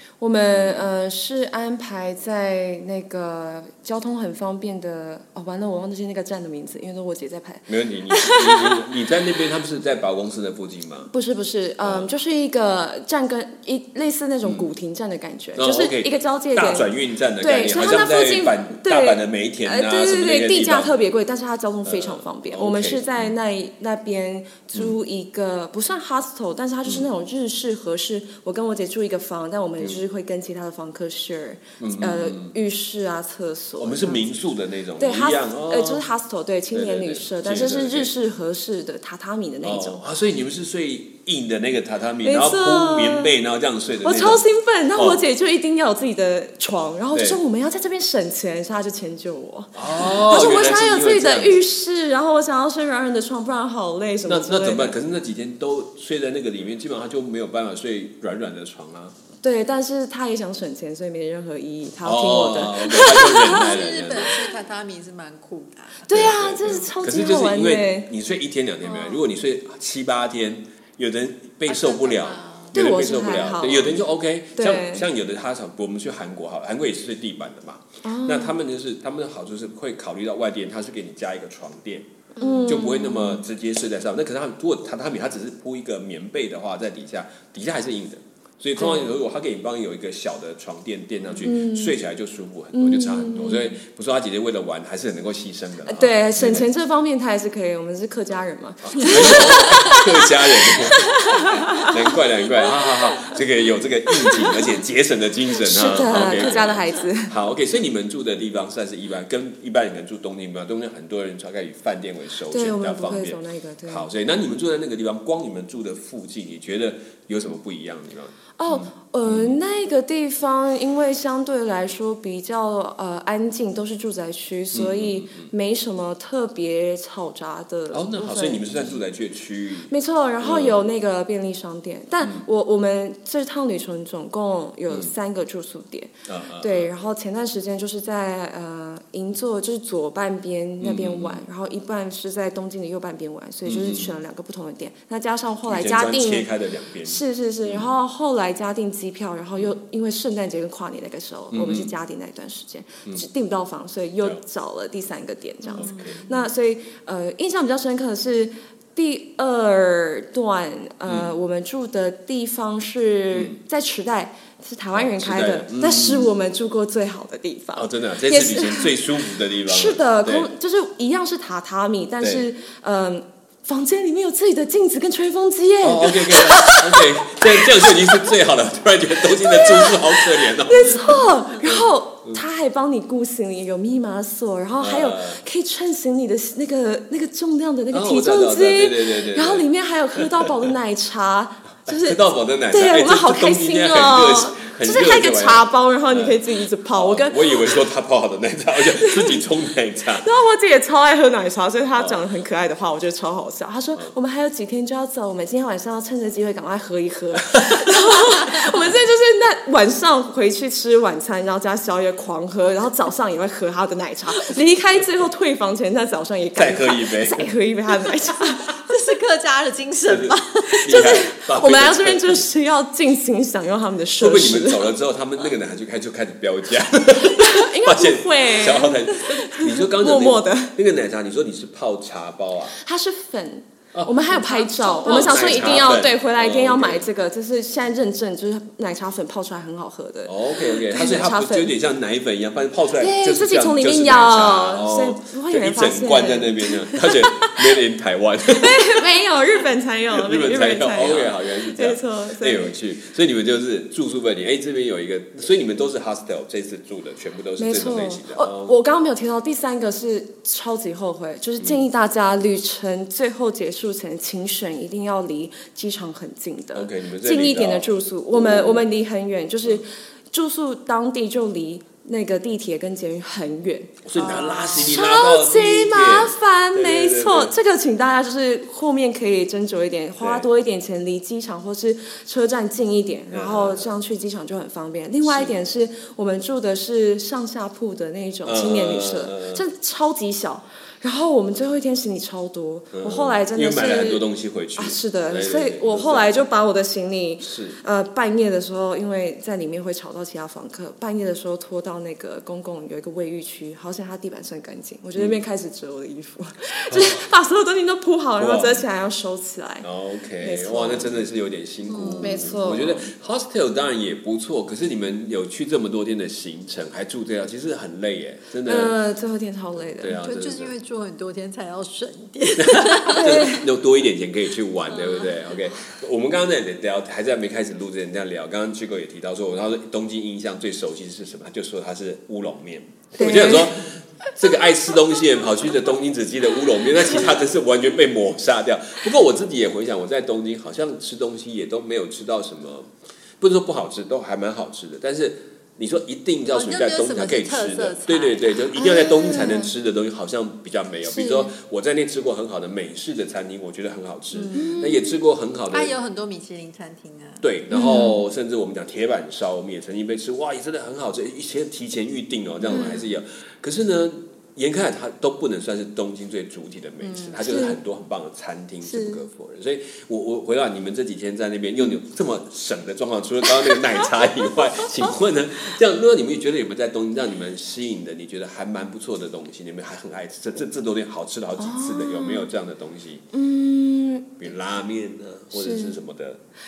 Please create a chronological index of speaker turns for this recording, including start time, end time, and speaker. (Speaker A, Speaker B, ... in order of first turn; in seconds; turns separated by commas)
Speaker A: 0.2-8.9, Speaker B: 0.5-0.9, Speaker B: 7.7-11.1, Speaker A: 11.1-16.9, Speaker B: 11.8-12.1, Speaker B: 15.6-20.9, Speaker A: 17.4-34.2, Speaker B: 21.8-23.3, Speaker B: 31.8-32.5, Speaker B: 33.8-36.0, Speaker A: 35.0-40.0, Speaker B: 36.7-38.1, Speaker B: 39.6-44.4, Speaker A: 42.2-43.3, Speaker A: 44.0-54.9, Speaker B: 45.0-45.2, Speaker B: 47.1-47.4, Speaker B: 49.7-51.6, Speaker B: 54.2-59.1, Speaker A: 59.4-63.7, Speaker B: 62.0-64.4, Speaker C: 63.0-66.0, Speaker A: 66.0-68.1, Speaker B: 66.1-82.1, Speaker C: 68.8-69.3, Speaker C: 71.7-72.7, Speaker A: 72.7-74.0, Speaker A: 74.5-75.0, Speaker A: 78.0-78.5, Speaker A: 82.3-83.4, Speaker C: 82.4-82.7, Speaker B: 82.6-96.7, Speaker A: 88.8-89.1, Speaker A: 91.4-92.0, Speaker A: 92.7-93.8, Speaker A: 95.8-102.0, Speaker B: 98.8-119.6, Speaker A: 102.6-103.3, Speaker A: 104.2-104.5, Speaker A: 105.6-107.3, Speaker A: 112.5-114.1, Speaker A: 118.6-128.9, Speaker B: 124.7-125.5, Speaker B: 127.9-130.8, Speaker A: 129.9-146.5, Speaker B: 136.3-136.9, Speaker B: 140.8-141.4, Speaker B: 143.6-144.2, Speaker B: 145.7-147.9, Speaker A: 147.1-169.1, Speaker B: 151.5-151.9, Speaker C: 155.7-156.4, Speaker B: 155.8-156.2, Speaker B: 161.1-161.3, Speaker B: 163.3-163.6, Speaker B: 164.9-166.3, Speaker B: 167.7-170.5, Speaker A: 169.6-178.3, Speaker B: 175.8-182.4, Speaker A: 179.3-192.2, Speaker B: 184.8-185.4, Speaker B: 187.9-190.7, Speaker B: 191.9-200.3, Speaker A: 192.7-197.8, Speaker A: 199.0-199.4, Speaker A: 200.2-218.7, Speaker B: 201.9-202.2, Speaker B: 207.5-207.9, Speaker B: 216.6-217.5, Speaker C: 218.8-220.9, Speaker B: 220.1-222.4, Speaker A: 220.8-224.9, Speaker B: 224.2-232.8, Speaker A: 227.4-230.7, Speaker A: 232.7-241.7, Speaker B: 233.9-237.1, Speaker C: 234.5-235.8, Speaker B: 240.2-249.1, Speaker A: 243.0-247.7, Speaker A: 248.5-252.7, Speaker B: 250.1-258.7, Speaker A: 257.6-294.2, Speaker B: 266.7-268.8, Speaker B: 274.0-277.5, Speaker B: 280.2-280.5, Speaker B: 283.3-283.9, Speaker B: 285.2-285.5, Speaker B: 288.4-289.6, Speaker B: 292.9-296.3, Speaker A: 294.8-309.9, Speaker B: 297.4-297.8, Speaker B: 306.9-307.2, Speaker B: 308.4-308.8, Speaker B: 309.8-318.9, Speaker A: 310.4-311.2, Speaker C: 311.9-312.4, Speaker A: 312.2-313.1, Speaker A: 318.6-320.2, Speaker B: 319.8-320.7, Speaker C: 320.2-323.4, Speaker B: 322.6-355.9, Speaker A: 323.1-323.6, Speaker C: 324.9-325.6, Speaker A: 333.1-333.8, Speaker C: 346.5-348.7, Speaker A: 348.7-349.7, Speaker A: 351.1-351.5, Speaker C: 354.3-355.1, Speaker A: 354.5-355.0, Speaker C: 355.7-357.4, Speaker B: 357.4-383.2, Speaker A: 357.7-358.2, Speaker A: 362.7-363.0, Speaker C: 367.0-367.5, Speaker A: 367.4-367.8, Speaker A: 368.9-369.2, Speaker A: 373.6-374.6, Speaker A: 381.6-382.5, Speaker A: 383.3-384.4, Speaker B: 384.4-386.4, Speaker A: 385.5-386.0